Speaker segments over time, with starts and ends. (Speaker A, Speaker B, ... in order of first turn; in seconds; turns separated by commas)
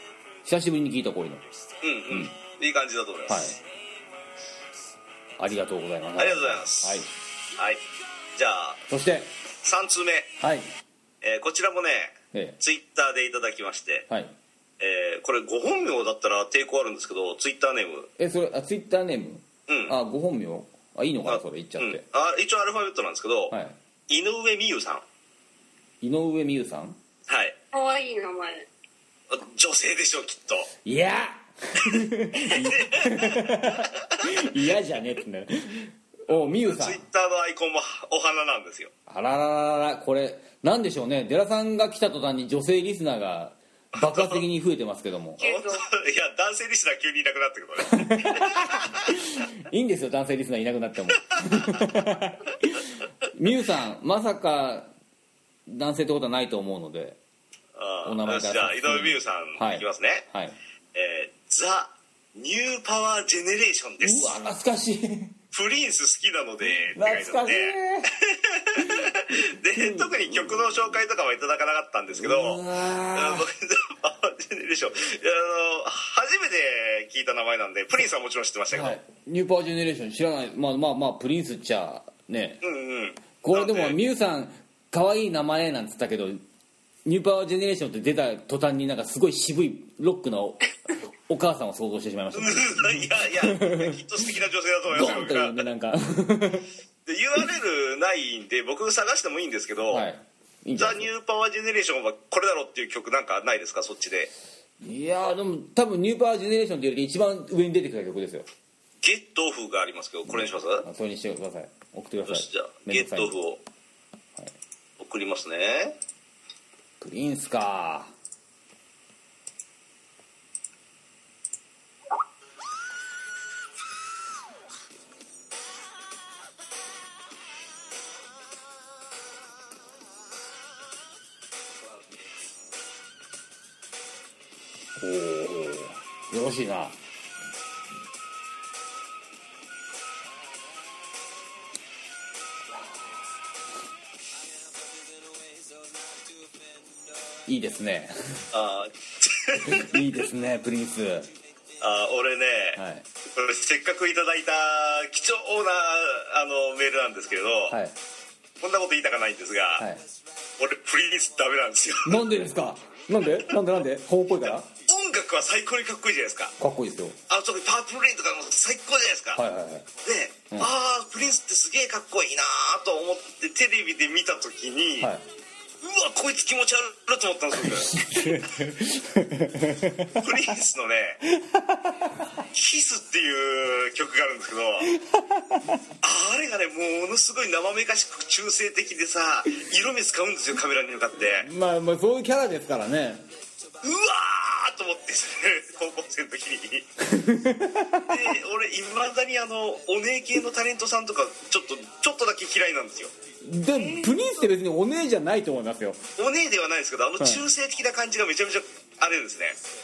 Speaker A: 0.5-1.4, Speaker B: 1.8-3.6, Speaker A: 2.1-2.4, Speaker A: 3.3-3.6, Speaker A: 5.4-7.1, Speaker B: 6.2-7.8, Speaker B: 8.3-8.8, Speaker A: 8.9-9.3, Speaker B: 9.6-10.4, Speaker A: 10.4-10.7, Speaker B: 11.2-14.1, Speaker A: 12.3-12.6, Speaker A: 14.1-14.3, Speaker B: 14.8-18.1, Speaker A: 18.2-22.0, Speaker B: 19.7-19.9, Speaker B: 21.3-23.6, Speaker A: 23.5-23.8, Speaker B: 24.1-25.0, Speaker A: 26.0-27.0, Speaker B: 27.3-27.6, Speaker C: 27.7-28.7, Speaker B: 29.3-30.7, Speaker A: 30.9-37.0, Speaker B: 32.4-34.3, Speaker B: 36.3-38.9, Speaker A: 39.1-45.4, Speaker B: 44.0-44.4, Speaker C: 45.4-45.9, Speaker B: 45.4-49.2, Speaker A: 47.9-54.9, Speaker B: 51.4-51.9, Speaker A: 55.7-57.2, Speaker B: 57.8-60.3, Speaker A: 58.0-60.6, Speaker B: 60.9-64.4, Speaker A: 64.0-65.4, Speaker B: 65.5-72.6, Speaker A: 66.9-68.1, Speaker A: 68.8-71.0, Speaker A: 72.1-73.5, Speaker B: 73.1-79.0, Speaker A: 78.7-82.6, Speaker B: 82.6-84.0, Speaker A: 83.4-86.4, Speaker A: 87.0-94.0, Speaker B: 92.3-95.7, Speaker A: 94.9-96.7, Speaker B: 97.1-100.1, Speaker A: 99.9-101.1, Speaker B: 100.8-104.3, Speaker A: 104.8-108.5, Speaker B: 109.0-110.9, Speaker A: 110.3-113.4, Speaker B: 112.3-113.6, Speaker B: 115.0-116.0, Speaker A: 117.0-118.1, Speaker A: 135.0-137.0, Speaker A: 147.5-148.5, Speaker B: 148.5-150.0, Speaker A: 149.6-151.3, Speaker B: 151.8-157.8, Speaker A: 152.8-153.1, Speaker A: 157.7-157.9, Speaker B: 158.6-159.9, Speaker A: 159.8-160.0, Speaker B: 160.6-162.3, Speaker A: 162.1-164.7, Speaker B: 164.4-166.6, Speaker A: 166.6-167.2, Speaker B: 167.3-169.4, Speaker A: 169.3-169.9, Speaker B: 170.0-175.1, Speaker B: 175.8-178.5, Speaker A: 177.6-180.3, Speaker B: 180.2-181.2, Speaker A: 181.3-182.3, Speaker B: 182.5-184.9, Speaker A: 184.9-185.8, Speaker B: 186.0-191.5, Speaker A: 191.2-193.2, Speaker B: 193.8-196.9, Speaker A: 197.0-198.3, Speaker B: 198.1-203.1, Speaker A: 203.4-206.0, Speaker C: 203.8-204.4, Speaker B: 206.2-209.6, Speaker A: 207.2-207.4